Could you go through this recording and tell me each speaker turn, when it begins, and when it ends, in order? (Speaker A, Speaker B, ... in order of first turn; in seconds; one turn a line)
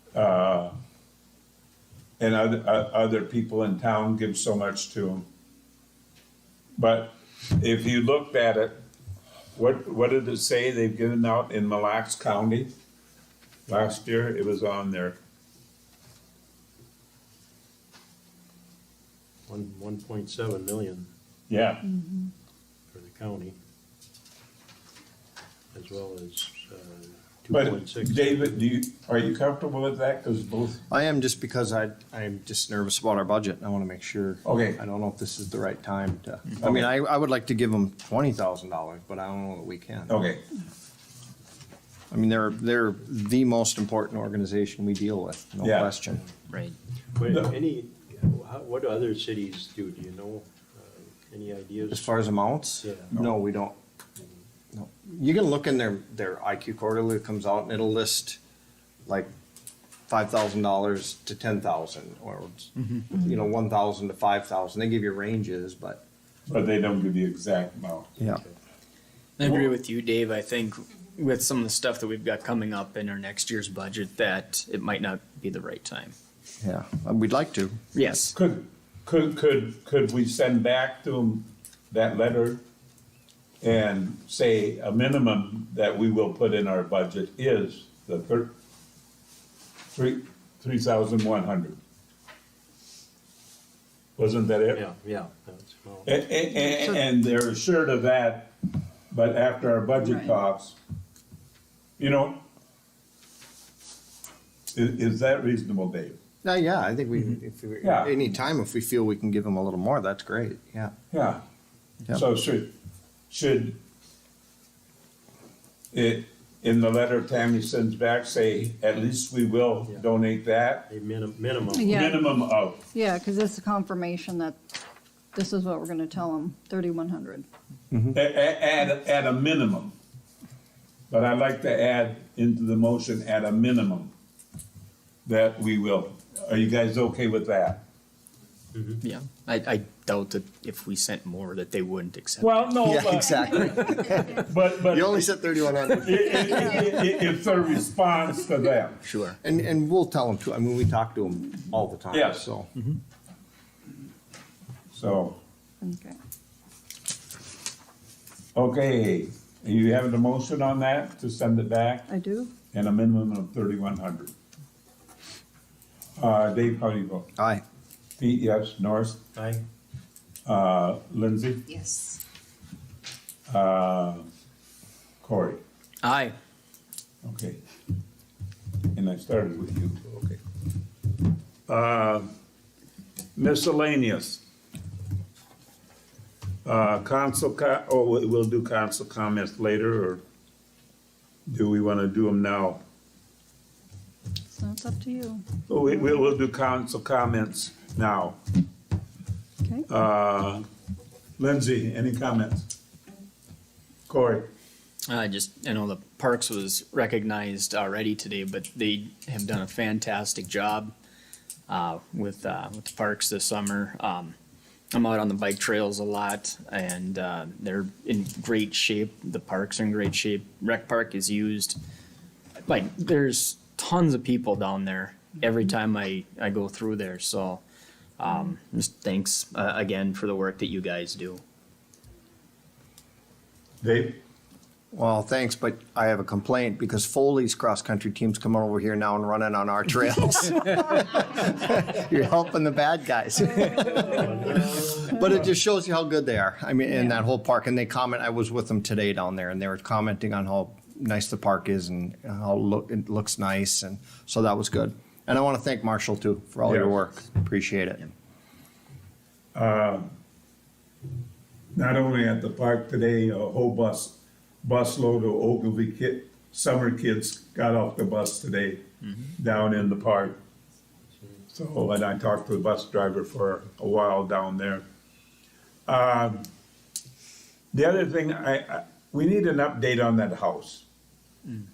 Speaker A: 0.1-0.8
Speaker A: 2.2-5.2
Speaker A: 6.8-8.8
Speaker A: 9.5-12.7
Speaker A: 13.7-15.2
Speaker B: 19.5-21.1
Speaker A: 21.5-21.9
Speaker C: 21.9-22.3
Speaker B: 22.9-23.5
Speaker B: 25.7-28.7
Speaker A: 27.5-30.8
Speaker D: 30.9-40.2
Speaker A: 34.4-34.8
Speaker A: 36.6-36.9
Speaker A: 40.1-40.4
Speaker D: 42.1-46.2
Speaker A: 45.6-45.9
Speaker E: 46.5-46.8
Speaker B: 47.1-52.1
Speaker D: 51.9-53.8
Speaker B: 52.8-53.1
Speaker D: 54.7-58.4
Speaker D: 60.1-66.0
Speaker A: 66.5-68.1
Speaker E: 69.4-76.1
Speaker A: 69.4-69.7
Speaker D: 76.6-77.8
Speaker E: 77.9-78.3
Speaker A: 78.3-82.6
Speaker A: 83.6-88.5
Speaker A: 89.9-91.8
Speaker A: 94.2-94.8
Speaker B: 94.7-96.2
Speaker A: 96.0-98.5
Speaker C: 96.6-97.0
Speaker A: 99.1-100.8
Speaker C: 100.0-100.3
Speaker A: 102.0-102.4
Speaker A: 104.7-106.2
Speaker D: 106.4-110.9
Speaker A: 107.8-108.1
Speaker A: 111.1-111.4
Speaker A: 112.1-112.7
Speaker A: 113.3-113.8
Speaker A: 115.9-120.9
Speaker B: 120.9-122.0
Speaker C: 121.7-122.3
Speaker A: 121.8-122.8
Speaker C: 122.9-124.6
Speaker C: 125.3-127.5
Speaker D: 127.9-128.2
Speaker A: 128.1-129.9
Speaker A: 131.1-134.1
Speaker A: 135.2-137.8
Speaker B: 138.7-139.0
Speaker E: 139.0-143.0
Speaker A: 142.4-145.3
Speaker D: 142.8-146.8
Speaker A: 146.0-149.0
Speaker E: 149.0-149.4
Speaker D: 149.4-152.7
Speaker A: 152.1-152.4
Speaker A: 154.9-155.4
Speaker C: 155.8-156.2
Speaker A: 158.5-162.1
Speaker C: 162.1-162.5
Speaker A: 162.7-164.3
Speaker A: 166.2-167.3
Speaker D: 167.4-167.6
Speaker A: 168.2-169.2
Speaker B: 169.3-169.6
Speaker A: 170.4-171.7
Speaker C: 171.8-172.2
Speaker A: 173.5-174.3
Speaker A: 175.2-175.6
Speaker E: 176.0-176.3
Speaker A: 177.2-177.6
Speaker A: 178.9-180.4
Speaker A: 181.7-182.3
Speaker A: 183.3-184.4
Speaker A: 186.6-190.2
Speaker A: 191.5-192.8
Speaker C: 194.5-196.3
Speaker A: 195.7-198.4
Speaker A: 199.9-200.6
Speaker A: 201.4-202.7
Speaker A: 204.1-204.5
Speaker E: 205.1-210.9
Speaker E: 211.7-214.3
Speaker E: 214.9-221.8
Speaker E: 222.7-227.6
Speaker E: 228.2-231.4
Speaker A: 233.8-234.2
Speaker D: 234.9-258.1
Speaker B: 244.2-244.8
Speaker A: 256.7-257.0
Speaker A: 259.5-260.1
Speaker A: 261.7-268.8
Speaker A: 269.4-270.4
Speaker A: 271.5-274.8
Speaker A: 275.9-276.5
Speaker A: 277.7-280.8